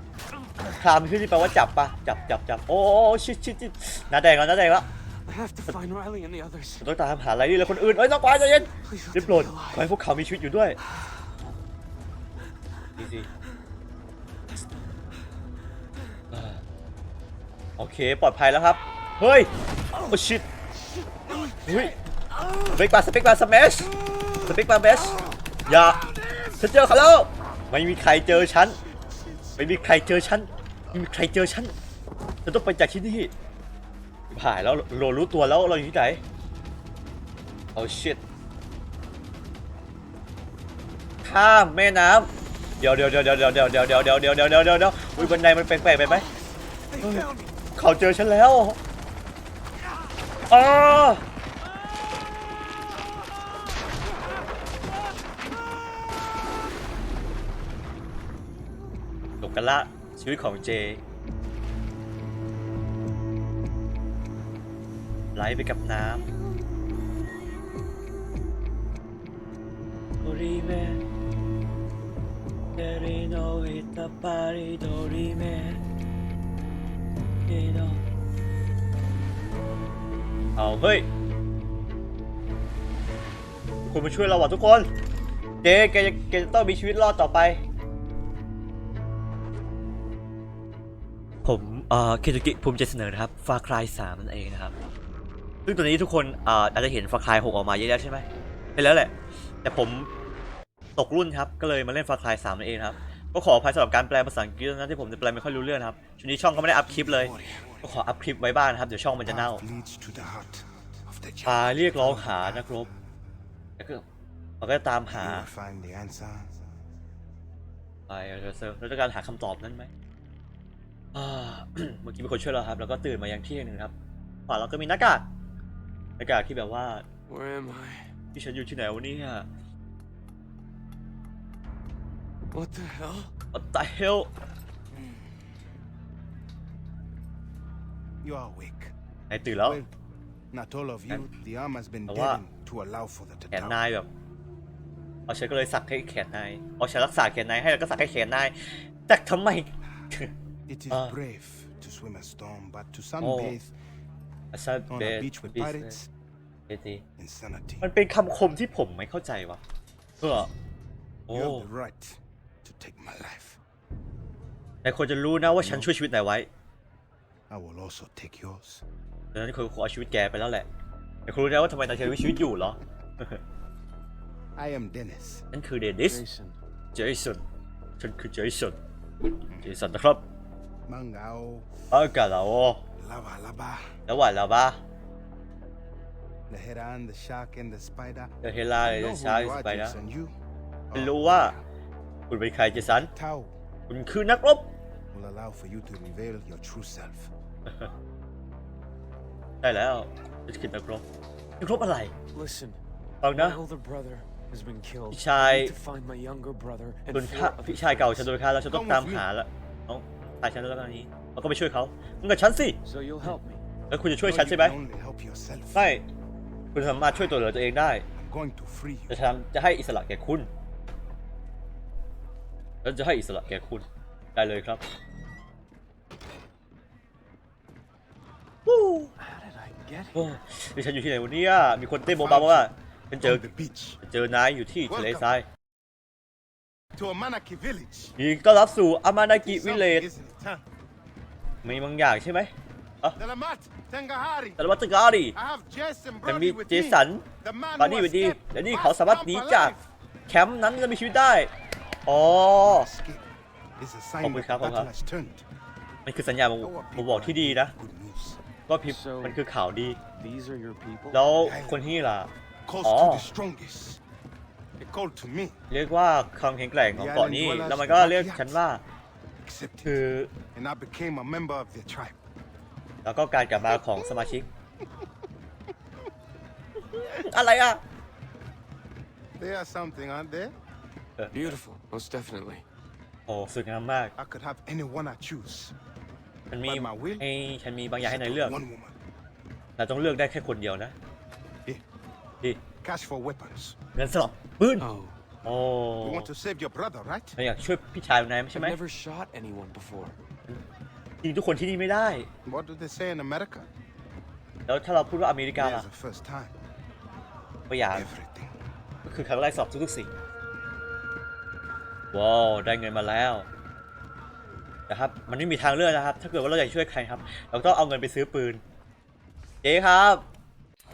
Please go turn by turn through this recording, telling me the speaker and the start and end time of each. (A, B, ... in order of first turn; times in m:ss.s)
0:00.7-0:04.9 A
0:05.2-0:06.8 B
0:06.8-0:10.8 A
0:08.8-0:09.8 B
0:13.0-0:13.3 A
0:16.3-0:16.6 A
0:17.8-0:20.5 A
0:21.1-0:22.7 B
0:21.6-0:22.0 A
0:22.7-0:28.8 A
0:25.0-0:26.5 B
0:29.6-0:31.7 A
0:32.4-0:33.3 A
0:34.3-0:36.2 A
0:37.8-0:38.2 A
0:41.2-0:42.3 A
0:42.8-0:46.3 A
0:46.0-0:47.5 B
0:47.0-0:48.8 A
0:50.5-0:51.2 A
0:59.4-1:01.0 A
1:05.4-1:06.3 A
1:10.2-1:11.0 A
1:12.8-1:15.8 A
1:17.5-1:18.0 A
1:20.6-1:21.1 A
1:23.9-1:24.9 A
1:25.6-1:27.6 A
1:31.4-1:34.8 A
1:35.7-1:39.1 A
1:39.6-1:40.1 A
1:41.0-1:49.6 A
1:46.7-1:47.8 C
1:49.2-1:53.0 C
1:51.4-1:52.9 A
1:53.8-1:54.0 A
1:54.6-1:55.5 A
1:55.1-1:56.6 C
1:58.1-1:59.9 A
2:01.1-2:03.9 A
2:04.5-2:05.2 A
2:06.2-2:07.0 A
2:07.3-2:08.1 B
2:08.3-2:09.5 A
2:12.5-2:13.3 B
2:13.5-2:14.3 A
2:14.9-2:15.4 C
2:18.2-2:18.9 C
2:19.3-2:19.8 A
2:19.6-2:19.9 C
2:20.5-2:23.8 C
2:22.1-2:22.4 A
2:23.5-2:24.1 A
2:25.3-2:30.3 A
2:30.7-2:33.7 C
2:30.9-2:31.2 A
2:33.2-2:33.6 A
2:34.5-2:36.0 A
2:34.9-2:36.1 C
2:36.7-2:37.0 A
2:37.2-2:37.9 C
2:37.8-2:39.6 A
2:40.2-2:40.5 A
2:41.3-2:41.7 A
2:41.3-2:43.6 C
2:44.8-2:46.5 A
2:45.5-2:45.9 C
2:47.5-2:48.8 C
2:49.3-2:50.7 A
2:51.3-2:53.4 A
2:54.6-2:55.5 C
2:55.5-2:56.2 A
2:56.0-2:56.6 B
2:56.9-2:57.4 A
2:58.0-2:58.8 A
2:59.6-3:00.2 A
3:00.9-3:01.7 C
3:01.9-3:02.8 A
3:03.0-3:04.0 C
3:04.1-3:04.8 A
3:06.5-3:10.3 C
3:08.4-3:10.0 A
3:10.9-3:11.6 C
3:10.9-3:11.6 A
3:12.3-3:13.1 A
3:12.8-3:13.5 C
3:13.9-3:14.7 A
3:15.1-3:17.3 C
3:19.6-3:21.0 A
3:21.6-3:22.1 A
3:22.3-3:22.8 B
3:23.2-3:23.6 A
3:23.3-3:28.3 B
3:25.1-3:25.8 A
3:27.1-3:33.4 A
3:28.7-3:29.3 C
3:32.8-3:33.6 B
3:33.9-3:34.8 A
3:34.2-3:35.9 C
3:35.8-3:36.0 A
3:36.8-3:38.0 A
3:38.2-3:39.2 C
3:39.1-3:40.5 A
3:42.8-3:44.8 A
3:48.7-3:49.1 A
3:49.2-3:50.3 B
3:50.2-3:53.4 A
3:52.1-3:52.7 C
3:53.2-3:54.0 C
3:54.0-3:55.5 A
3:54.9-3:55.3 C
3:56.9-3:58.2 C
3:58.2-4:00.1 A
3:59.4-4:00.6 C
4:01.6-4:03.2 A
4:03.2-4:04.6 C
4:04.6-4:05.4 A
4:05.3-4:09.9 C
4:06.2-4:07.2 A
4:07.8-4:09.8 A
4:10.3-4:11.5 A
4:12.1-4:12.9 A
4:12.6-4:13.2 C
4:13.8-4:15.4 C
4:14.2-4:14.9 A
4:16.1-4:17.7 A
4:16.6-4:18.4 C
4:18.7-4:20.0 A
4:18.9-4:19.4 B
4:20.1-4:21.2 B
4:21.1-4:22.3 A
4:21.4-4:21.8 C
4:22.7-4:24.0 C
4:22.8-4:23.3 A
4:24.8-4:25.6 C
4:25.7-4:28.8 A
4:26.9-4:28.6 C
4:29.4-4:32.2 C
4:29.8-4:30.3 A
4:33.0-4:34.5 A
4:33.7-4:34.3 C
4:36.9-4:37.8 A
4:39.4-4:40.5 C
4:41.2-4:41.6 A
4:41.3-4:42.6 B
4:43.3-4:44.1 A
4:44.2-4:45.8 C
4:46.5-4:48.6 A
4:46.7-4:47.3 C
4:48.0-4:48.9 C
4:49.8-4:51.0 A
4:52.8-4:53.8 C
4:54.0-4:54.9 A
4:54.8-4:55.2 B
4:55.4-4:56.3 A
4:56.0-4:57.4 C
4:57.4-4:58.8 A
4:58.6-5:00.2 B
5:01.2-5:02.3 A
5:02.4-5:03.7 C
5:04.7-5:05.9 A
5:05.6-5:06.5 C
5:07.7-5:08.1 A
5:07.9-5:08.5 C
5:09.0-5:10.1 A
5:12.1-5:13.5 A
5:14.9-5:18.6 A
5:19.6-5:20.2 A